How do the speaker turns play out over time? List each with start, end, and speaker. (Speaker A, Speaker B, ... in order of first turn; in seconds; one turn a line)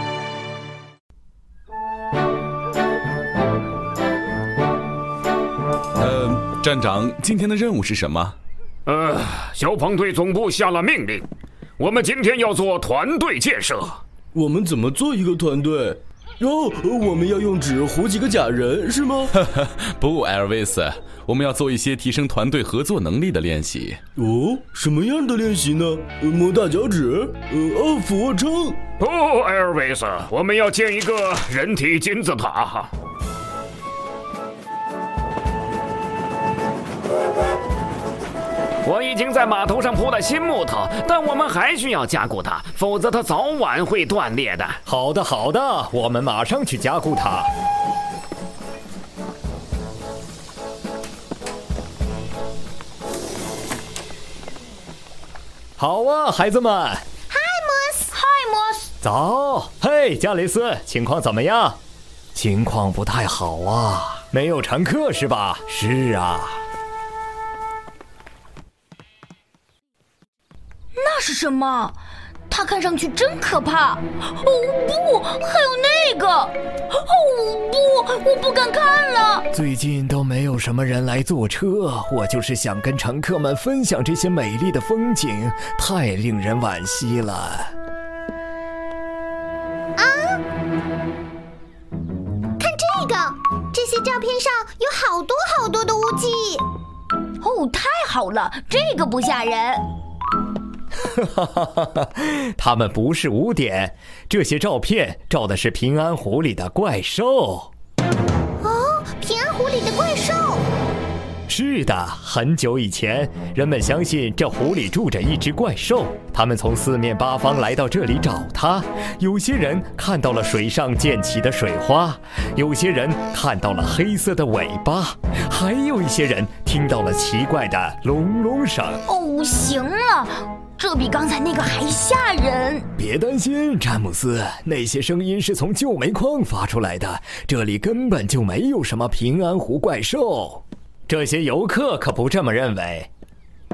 Speaker A: 6.0-8.3
Speaker B: 8.9-11.2
Speaker B: 11.8-14.0
Speaker C: 14.3-19.3
Speaker A: 19.4-24.0
Speaker C: 24.2-28.8
Speaker B: 29.0-32.9
Speaker B: 38.9-44.8
Speaker D: 44.9-47.5
Speaker D: 55.8-57.0
Speaker E: 57.3-58.1
Speaker F: 58.1-58.9
Speaker D: 59.0-61.8
Speaker D: 62.4-66.6
Speaker F: 71.0-72.0
Speaker F: 72.5-79.5
Speaker D: 79.5-87.7
Speaker E: 90.0-90.4
Speaker E: 92.6-96.6
Speaker F: 97.4-99.9
Speaker D: 101.1-107.7
Speaker E: 108.6-110.6
Speaker D: 111.5-129.0
Speaker F: 129.1-132.9
Speaker D: 133.0-143.1